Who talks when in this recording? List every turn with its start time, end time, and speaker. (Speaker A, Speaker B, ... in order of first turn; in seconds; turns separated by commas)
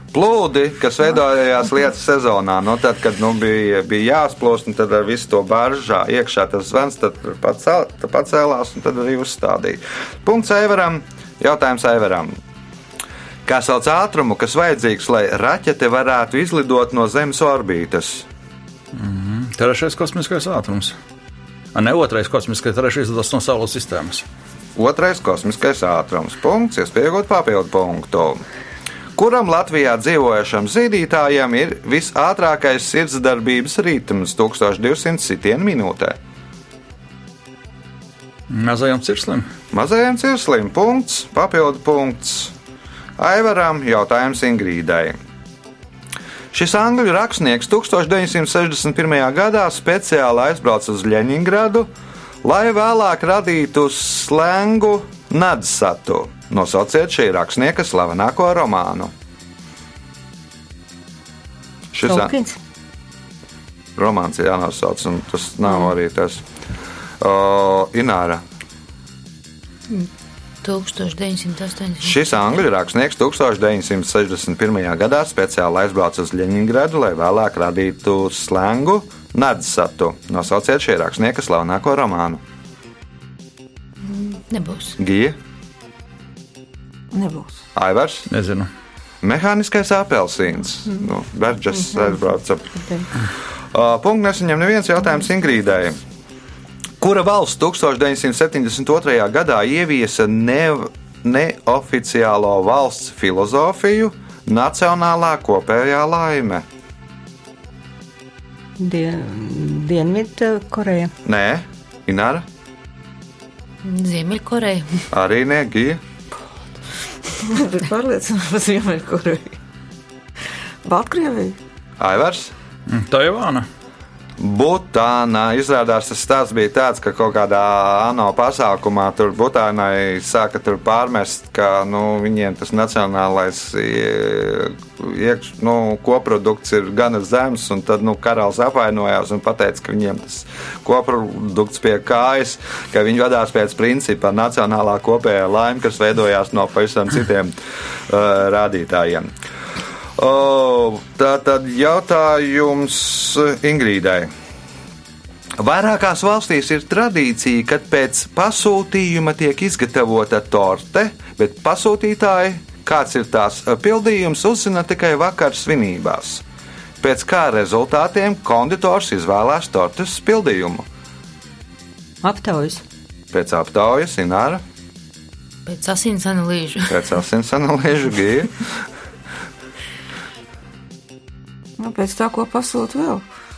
Speaker A: 0.1-12.4, Speaker A: 13.4-18.3, Speaker B: 18.9-20.9, Speaker B: 21.7-24.2, Speaker A: 24.8-28.4, Speaker A: 29.1-36.2, Speaker B: 38.5-39.5, Speaker A: 39.7-42.5, Speaker A: 43.2-45.1, Speaker A: 46.5-51.9, Speaker A: 52.4-59.1, Speaker A: 61.9-62.3, Speaker C: 62.0-62.6, Speaker A: 64.0-66.4, Speaker A: 67.2-68.4, Speaker D: 70.6-72.3, Speaker A: 72.0-82.4, Speaker D: 84.0-85.0, Speaker A: 85.0-85.4, Speaker E: 87.1-87.6, Speaker A: 87.7-88.3, Speaker B: 88.3-88.7, Speaker A: 89.2-92.8, Speaker A: 93.7-96.0, Speaker A: 97.0-106.6, Speaker C: 108.8-111.1, Speaker A: 111.2-112.5, Speaker D: 113.8-115.0, Speaker A: 115.1-116.0, Speaker E: 117.4-119.6, Speaker E: 120.8-121.6, Speaker A: 122.0-122.5, Speaker B: 122.9-123.7, Speaker A: 124.4-147.5, Speaker A: 148.1-149.3, Speaker A: 150.2-154.3, Speaker A: 155.6-166.4, Speaker A: 167.0-170.8, Speaker C: 172.2-172.8, Speaker A: 173.3-174.6, Speaker D: 175.7-177.1, Speaker A: 176.9-178.7, Speaker E: 181.8-183.2